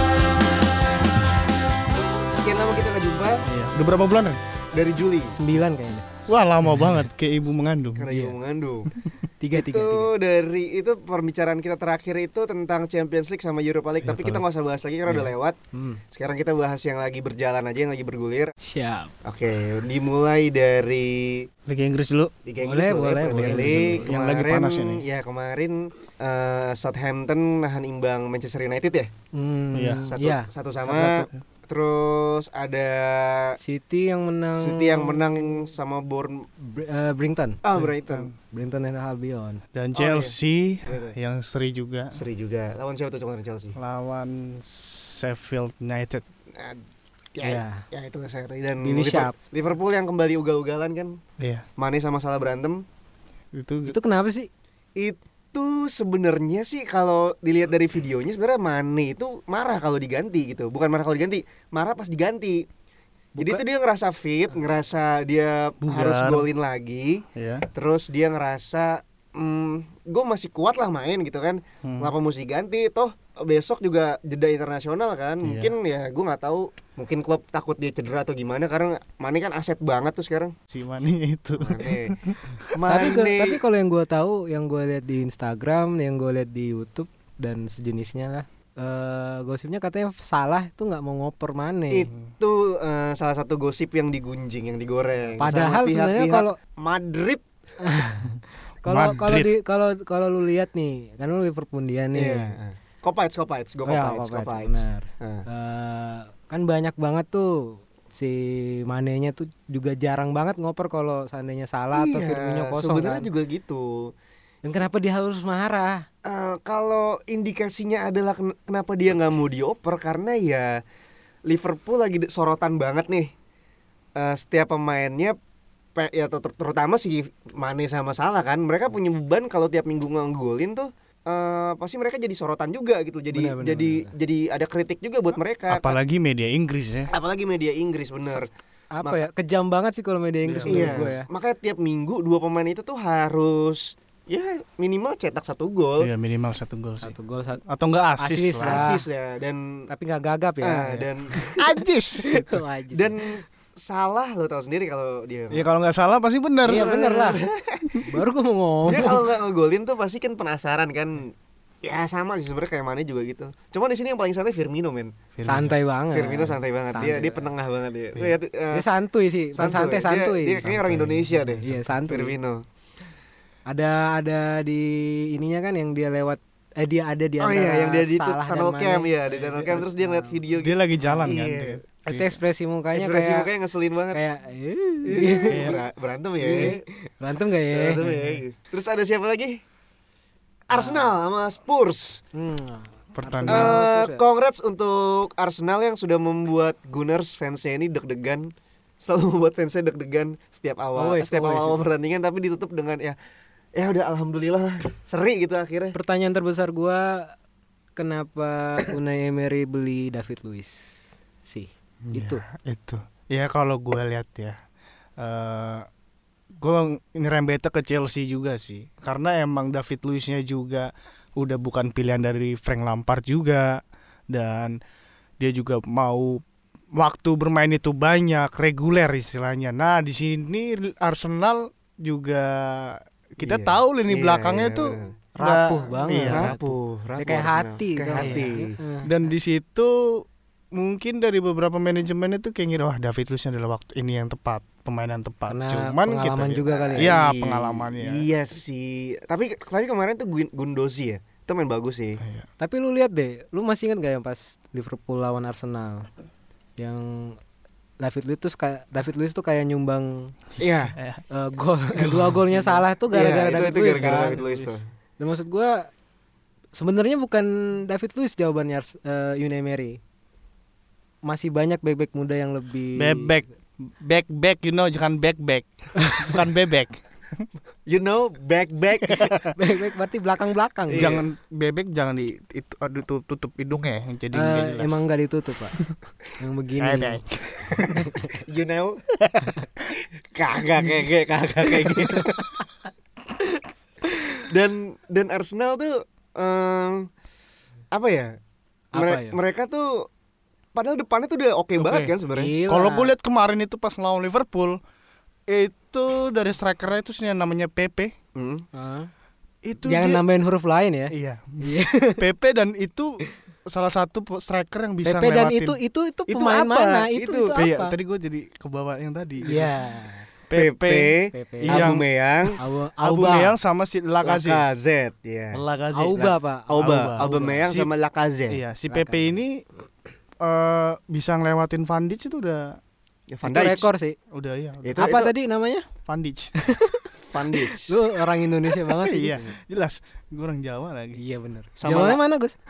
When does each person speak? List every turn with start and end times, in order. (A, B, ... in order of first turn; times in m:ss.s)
0:02.3-0:03.4 A
0:03.5-0:04.4 B
0:04.7-0:05.4 A
0:05.3-0:06.2 C
0:06.3-0:08.1 B
0:08.0-0:08.9 A
0:09.0-0:09.2 B
0:09.4-0:10.1 C
0:09.5-0:15.6 A
0:14.0-0:14.4 B
0:15.7-0:16.0 C
0:16.1-0:18.5 A
0:18.6-0:19.1 C
0:19.2-0:21.5 A
0:21.7-0:22.3 B
0:22.4-0:29.1 A
0:22.6-0:24.1 C
0:23.3-0:25.0 B
0:29.3-0:30.5 C
0:29.7-0:30.1 B
0:30.1-0:33.6 A
0:30.9-0:31.4 B
0:33.6-0:35.6 C
0:34.6-0:36.5 A
0:36.6-0:37.6 C
0:37.6-0:38.3 A
0:37.7-0:38.3 B
0:38.5-0:39.6 C
0:39.7-0:42.2 B
0:40.0-0:41.2 A
0:42.1-0:43.8 A
0:43.8-0:46.2 B
0:46.5-0:46.8 A
0:47.4-0:51.2 A
0:47.4-0:47.8 C
0:48.8-0:49.3 C
0:51.4-0:51.6 B
0:51.8-0:52.8 A
0:53.5-0:54.0 B
0:53.9-0:54.5 C
0:55.0-1:02.7 A
1:03.4-1:03.6 C
1:03.4-1:07.2 A
1:05.8-1:06.5 B
1:07.4-1:07.7 B
1:07.7-1:20.6 A
1:11.8-1:12.1 B
1:15.4-1:15.7 B
1:20.7-1:22.6 B
1:21.6-1:22.2 A
1:22.8-1:32.1 C
1:22.8-1:23.6 A
1:31.9-1:37.4 A
1:35.4-1:36.6 C
1:37.8-1:42.5 C
1:38.9-1:39.5 B
1:42.1-1:45.5 A
1:43.9-1:53.3 C
1:51.9-1:54.1 A
1:54.6-1:56.0 C
1:56.2-2:00.8 A
2:01.5-2:03.3 A
2:04.2-2:05.4 A
2:06.0-2:16.0 A
2:13.3-2:14.1 C
2:15.7-2:17.1 B
2:17.1-2:18.5 A
2:18.3-2:21.3 C
2:20.5-2:21.0 B
2:20.7-2:26.1 A
2:26.0-2:27.1 B
2:27.0-2:27.6 C
2:27.7-2:28.9 B
2:28.2-2:29.0 C
2:28.6-2:29.9 A
2:29.9-2:31.0 C
2:30.6-2:31.5 A
2:30.9-2:32.6 B
2:32.2-2:33.2 C
2:32.9-2:35.6 A
2:35.5-2:36.9 B
2:36.6-2:37.4 C
2:36.7-2:38.0 A
2:38.1-2:39.2 C
2:38.8-2:45.1 A
2:45.4-2:45.7 B
2:45.5-2:47.5 C
2:46.1-2:48.9 A
2:48.7-2:50.7 C
2:49.6-2:52.6 A
2:50.6-2:51.8 B
2:51.6-2:52.4 C
2:53.7-3:00.4 C
2:57.4-3:01.8 A
3:00.6-3:02.4 B
3:01.0-3:01.3 C
3:02.1-3:03.5 C
3:02.9-3:04.2 A
3:04.1-3:05.8 C
3:05.1-3:06.8 A
3:05.5-3:05.8 B
3:06.4-3:08.0 C
3:07.7-3:09.6 A
3:08.0-3:08.4 B
3:10.7-3:12.2 A
3:10.7-3:11.1 C
3:12.4-3:14.2 C
3:13.2-3:13.8 B
3:13.5-3:18.5 A
3:19.0-3:23.2 A
3:21.0-3:21.8 C
3:23.8-3:26.0 A
3:25.9-3:27.4 C
3:28.0-3:32.4 C
3:32.1-3:34.6 B
3:35.2-3:35.9 B
3:36.6-3:44.8 B
3:45.4-3:46.4 B
3:47.0-3:56.6 B
3:53.4-3:55.1 A
3:55.4-3:59.1 C
3:56.2-3:58.8 A
3:58.2-3:58.5 B
3:59.0-4:08.2 B
4:05.5-4:07.1 C
4:06.7-4:12.2 A
4:12.2-4:12.5 B
4:12.6-4:16.1 C
4:16.8-4:17.4 C
4:18.0-4:20.3 C
4:20.6-4:21.0 A
4:20.9-4:21.2 B
4:21.3-4:24.4 C
4:22.0-4:22.8 B
4:23.1-4:24.8 A
4:24.0-4:24.8 B
4:25.2-4:25.9 C
4:26.8-4:30.0 C
4:31.3-4:33.4 C
4:33.0-4:37.5 B
4:37.9-4:39.5 A
4:39.1-4:39.5 B
4:39.6-4:41.1 C
4:40.9-4:41.2 A
4:41.0-4:45.0 B
4:44.3-4:45.8 C
4:46.4-4:47.2 C
4:46.8-4:48.3 B
4:47.9-4:48.4 C
4:48.4-4:49.0 A
4:49.2-4:49.9 B
4:50.3-4:52.4 A
4:54.4-4:57.1 A
4:57.9-4:58.4 A
4:58.9-4:59.4 C
4:59.0-5:00.1 A
5:00.8-5:02.5 A
5:01.8-5:02.1 B
5:02.3-5:03.1 C
5:02.7-5:04.8 B
5:05.5-5:08.1 B
5:08.4-5:08.7 A
5:08.7-5:09.1 C
5:09.6-5:10.2 B
5:09.9-5:12.2 C
5:11.1-5:15.8 B
5:15.0-5:18.0 C
5:16.3-5:17.6 A
5:17.6-5:19.7 B
5:19.4-5:20.3 C
5:20.5-5:24.6 B
5:20.5-5:22.6 A
5:21.3-5:21.9 C
5:22.6-5:23.5 C
5:24.2-5:25.6 A
5:25.5-5:27.9 B
5:25.9-5:27.7 C
5:26.2-5:28.6 A
5:28.5-5:29.6 B
5:28.9-5:29.4 C
5:30.4-5:32.8 B
5:33.3-5:33.9 A
5:33.4-5:34.2 C
5:34.3-5:34.9 B
5:34.8-5:35.3 A
5:35.0-5:35.8 C
5:36.1-5:36.8 B
5:36.6-5:36.9 C
5:37.2-5:37.9 A
5:37.8-5:39.4 C
5:38.8-5:41.2 B
5:41.2-5:42.6 C
5:41.8-5:42.2 A